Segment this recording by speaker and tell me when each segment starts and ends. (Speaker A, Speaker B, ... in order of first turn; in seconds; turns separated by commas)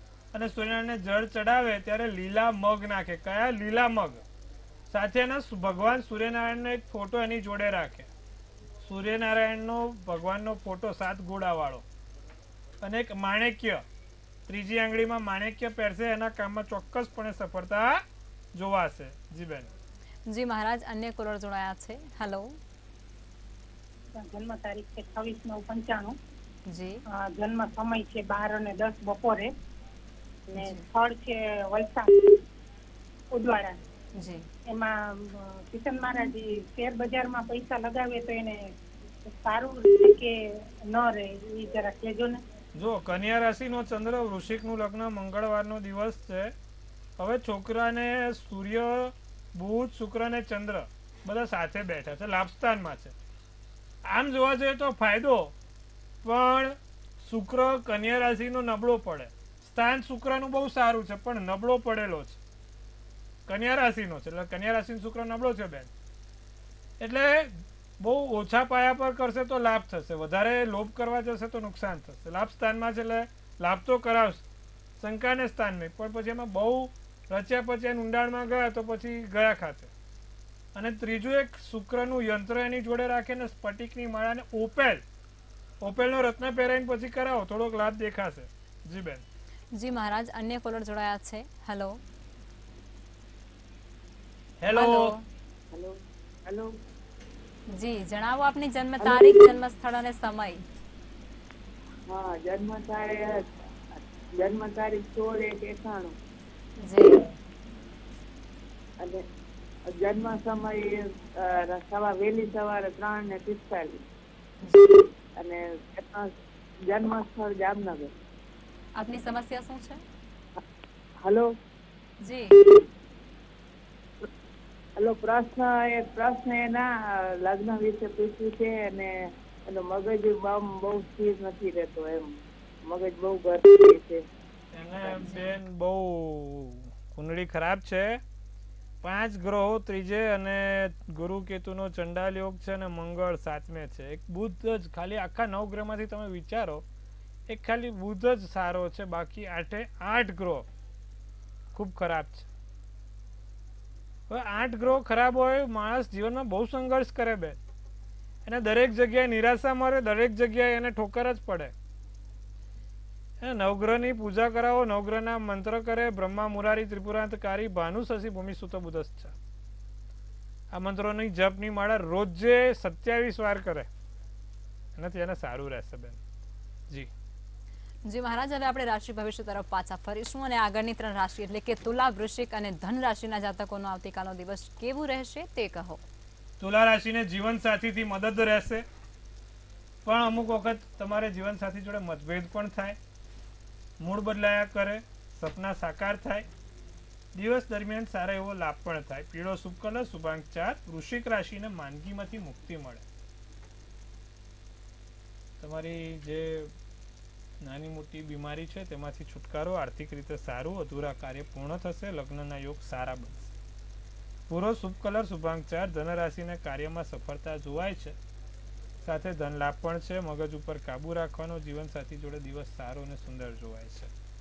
Speaker A: 0.3-4.2, Speaker A: 4.9-8.1, Speaker A: 8.8-11.8, Speaker A: 12.8-13.8, Speaker A: 14.5-18.0, Speaker A: 18.5-19.7, Speaker B: 20.3-22.5, Speaker C: 24.2-26.1, Speaker B: 26.7-27.0, Speaker C: 27.1-29.5, Speaker B: 30.5-30.8, Speaker C: 30.6-32.4, Speaker C: 33.3-33.8, Speaker B: 34.2-34.4, Speaker C: 34.7-38.6, Speaker C: 39.4-40.3, Speaker C: 40.9-42.4, Speaker A: 42.8-46.5, Speaker A: 47.2-53.1, Speaker A: 54.0-55.5, Speaker A: 56.2-62.4, Speaker A: 63.5-65.9, Speaker A: 67.0-74.4, Speaker A: 75.0-79.9, Speaker A: 80.8-85.0, Speaker A: 85.8-89.2, Speaker B: 89.7-92.0, Speaker A: 94.6-95.1, Speaker B: 94.7-95.2, Speaker B: 97.7-100.6, Speaker D: 99.0-99.5, Speaker D: 102.1-103.4, Speaker D: 104.0-106.1, Speaker B: 106.8-107.2, Speaker D: 109.9-114.0, Speaker B: 114.6-115.0, Speaker D: 115.4-116.3, Speaker D: 116.9-118.1, Speaker B: 119.0-120.0, Speaker D: 121.2-121.5, Speaker B: 122.2-122.7, Speaker D: 125.0-126.9, Speaker D: 127.4-129.1, Speaker D: 129.7-132.3, Speaker D: 132.8-134.2, Speaker A: 134.7-138.2, Speaker A: 139.0-146.8, Speaker A: 147.5-150.7, Speaker A: 151.7-152.5, Speaker A: 154.3-157.6, Speaker A: 158.5-161.7, Speaker A: 163.4-169.3, Speaker A: 170.7-173.9, Speaker A: 175.0-176.2, Speaker B: 178.1-186.0, Speaker A: 186.6-188.8, Speaker A: 190.1-193.0, Speaker A: 194.0-196.5, Speaker A: 197.3-203.1, Speaker A: 205.6-206.7, Speaker A: 207.6-213.5, Speaker A: 214.5-218.2, Speaker A: 219.0-224.1